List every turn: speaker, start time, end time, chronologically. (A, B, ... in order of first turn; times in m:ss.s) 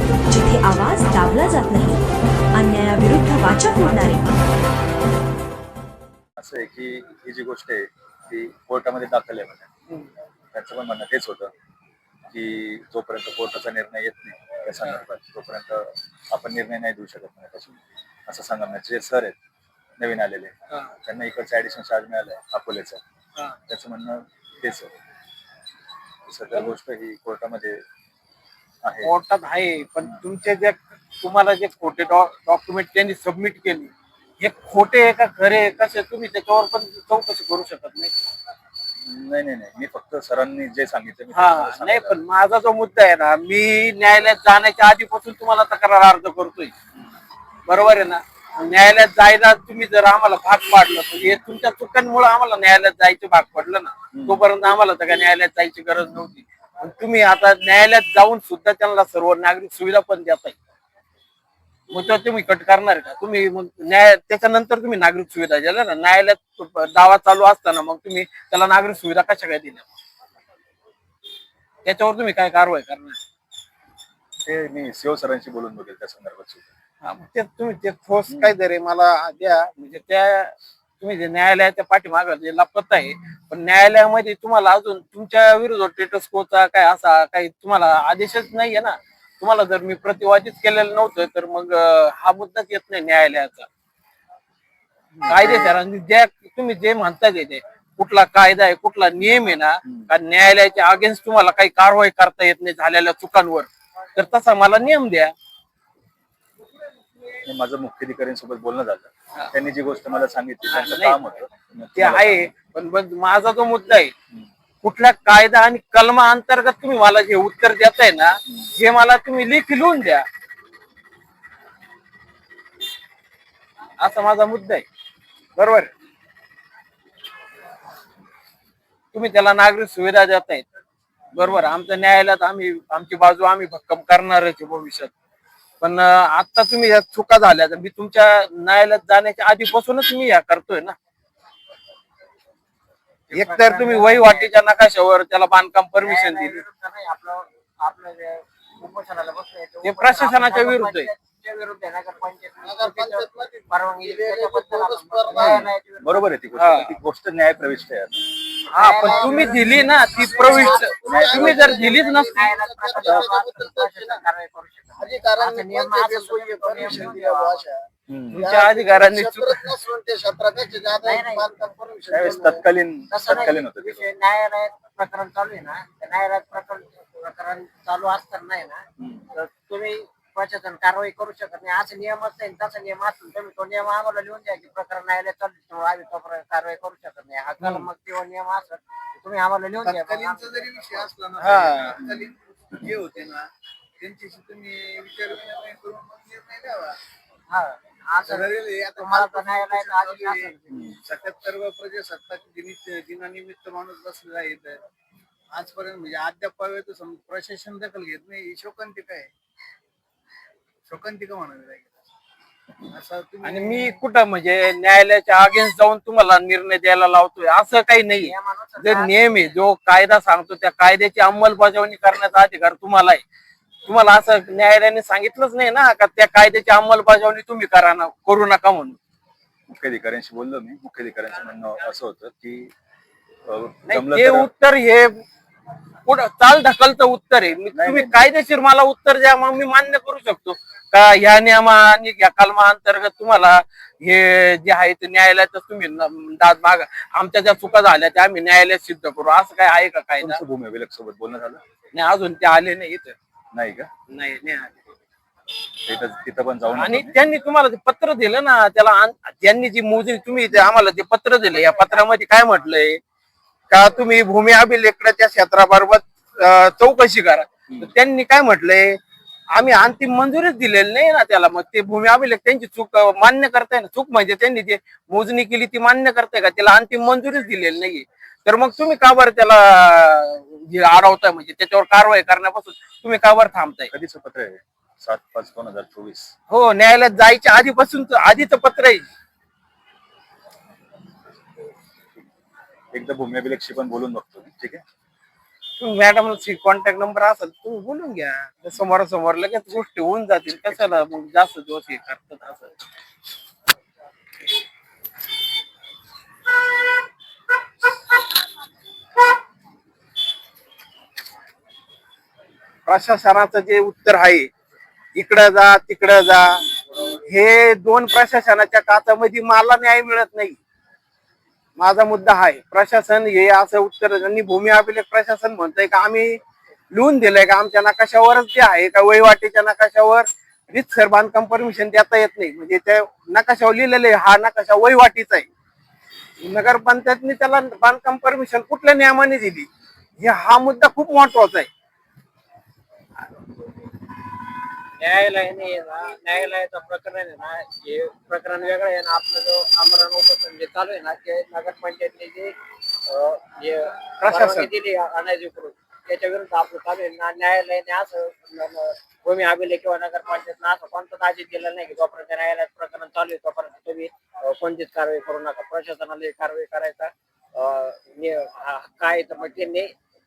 0:00.3-0:04.4 A
0:06.4-0:09.7 B
0:10.5-0:11.5 B
0:12.3-0:17.8 B
0:18.3-0:19.4 B
0:20.0-0:20.5 B
0:21.0-0:23.0 B
0:23.7-0:24.9 B
0:26.3-0:27.8 B
0:28.8-0:29.1 B
0:29.0-0:38.1 C
0:39.0-0:42.2 B
0:41.3-0:46.7 C
0:47.7-1:00.6 C
0:54.1-0:54.4 B
1:01.9-1:09.9 C
1:11.8-1:13.2 C
1:14.4-1:16.6 B
1:17.0-1:33.7 C
1:35.2-1:35.7 B
1:35.3-1:45.3 C
1:47.4-1:52.4 B
1:50.7-1:51.2 C
1:52.0-1:54.1 C
1:54.8-2:00.3 C
2:04.0-2:04.8 C
2:05.6-2:05.9 C
2:09.1-2:10.7 C
2:11.3-2:15.1 C
2:15.8-2:21.0 C
2:23.3-2:24.5 D
2:23.3-2:26.6 C
2:26.0-2:36.3 D
2:29.8-2:31.1 C
2:32.6-2:35.7 E
2:35.3-2:38.2 B
2:36.6-2:36.9 C
2:38.7-2:47.6 D
2:38.7-2:42.4 C
2:38.9-2:44.2 E
2:41.0-2:41.8 B
2:45.0-2:47.8 E
2:48.1-2:48.5 B
2:48.3-2:49.7 C
2:48.4-2:52.6 E
2:51.0-2:52.5 D
2:52.1-2:54.1 B
2:53.1-3:11.1 D
2:59.0-2:59.2 B
3:07.6-3:07.9 C
3:09.8-3:13.5 E
3:11.4-3:12.0 C
3:12.0-3:12.3 B
3:14.0-3:17.0 E
3:17.5-3:20.6 D
3:18.2-3:24.8 E
3:20.7-3:21.0 B
3:25.5-3:29.3 E
3:30.9-3:31.9 E
3:32.9-3:34.0 E
3:33.4-3:43.2 C
3:38.2-3:39.5 D
3:43.9-3:49.0 C
3:49.7-3:52.7 B
3:53.5-3:54.5 B
3:53.9-3:55.2 C
3:56.1-4:10.4 C
3:57.7-3:58.2 B
4:10.2-4:11.6 B
4:11.9-4:13.2 C
4:13.5-4:13.9 B
4:14.1-4:14.8 C
4:15.8-4:17.2 B
4:16.8-4:23.0 C
4:23.7-4:29.0 C
4:29.5-4:43.9 C
4:43.9-4:46.3 B
4:46.5-4:49.1 C
4:52.9-4:54.8 B
4:55.8-5:02.8 C
5:12.9-5:14.5 C
5:15.2-5:16.6 C
5:17.3-5:20.6 C
5:21.8-5:26.4 C
5:26.9-5:35.5 C
5:36.4-5:39.7 C
5:40.2-5:41.7 C
5:45.0-5:52.6 D
5:53.1-6:09.9 D
5:54.2-5:54.7 C